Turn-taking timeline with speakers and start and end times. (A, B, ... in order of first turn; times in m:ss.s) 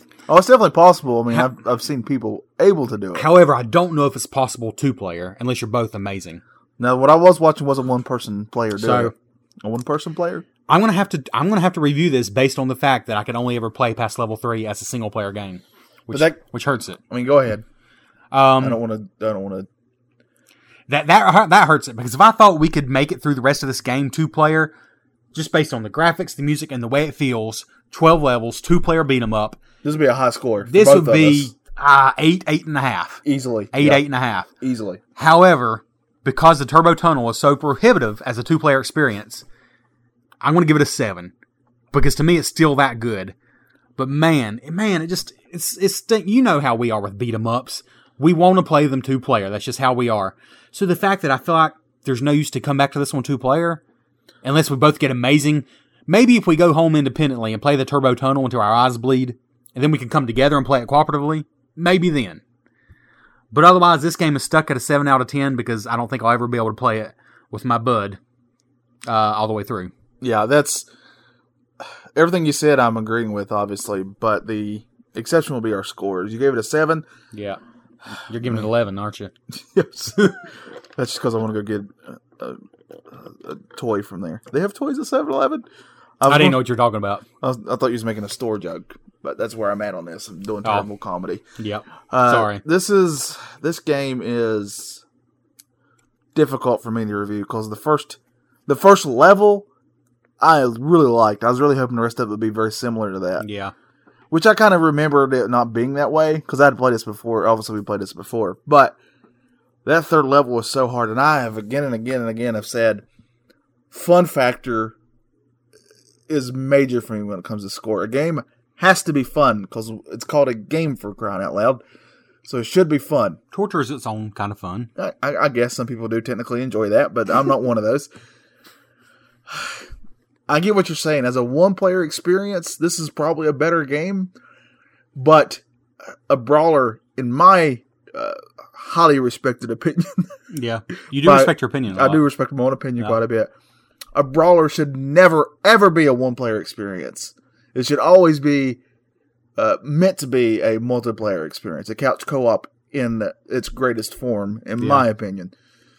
0:00.3-0:03.2 A
0:03.1-0:06.4 B
0:06.8-0:10.4 A
0:08.8-0:09.1 B
0:10.7-0:17.0 B
0:16.1-0:16.4 A
0:17.1-0:17.6 A
0:18.3-0:18.8 B
0:18.6-0:19.7 A
0:20.9-0:24.7 B
0:25.3-0:29.6 B
0:29.8-0:31.5 A
0:30.6-0:34.5 B
0:33.2-0:34.0 A
0:34.6-0:35.0 A
0:35.2-0:39.4 B
0:40.4-0:41.3 B
0:41.9-0:43.4 B
0:44.0-0:53.8 B
0:54.4-1:02.4 B
1:03.5-1:08.2 B
1:09.0-1:09.9 B
1:10.2-1:10.9 A
1:12.1-1:17.0 A
1:17.3-1:17.6 B
1:18.1-1:19.3 B
1:19.5-1:25.6 A
1:26.2-1:26.6 A
1:26.2-1:27.2 B
1:27.4-1:31.4 A
1:31.6-1:32.6 B
1:32.1-1:35.0 A
1:36.4-1:39.6 A
1:40.4-1:43.4 A
1:43.4-1:43.7 B
1:44.3-1:49.0 A
1:49.8-1:53.0 A
1:53.9-1:54.9 A
1:56.3-2:01.8 A
2:02.4-2:03.4 A
2:03.5-2:04.9 B
2:05.0-2:08.1 A
2:09.5-2:09.8 A
2:10.5-2:14.3 A
2:15.1-2:15.6 A
2:16.3-2:20.3 A
2:20.5-2:22.2 B
2:21.1-2:23.5 A
2:24.1-2:28.8 A
2:29.6-2:35.5 A
2:34.8-2:35.0 B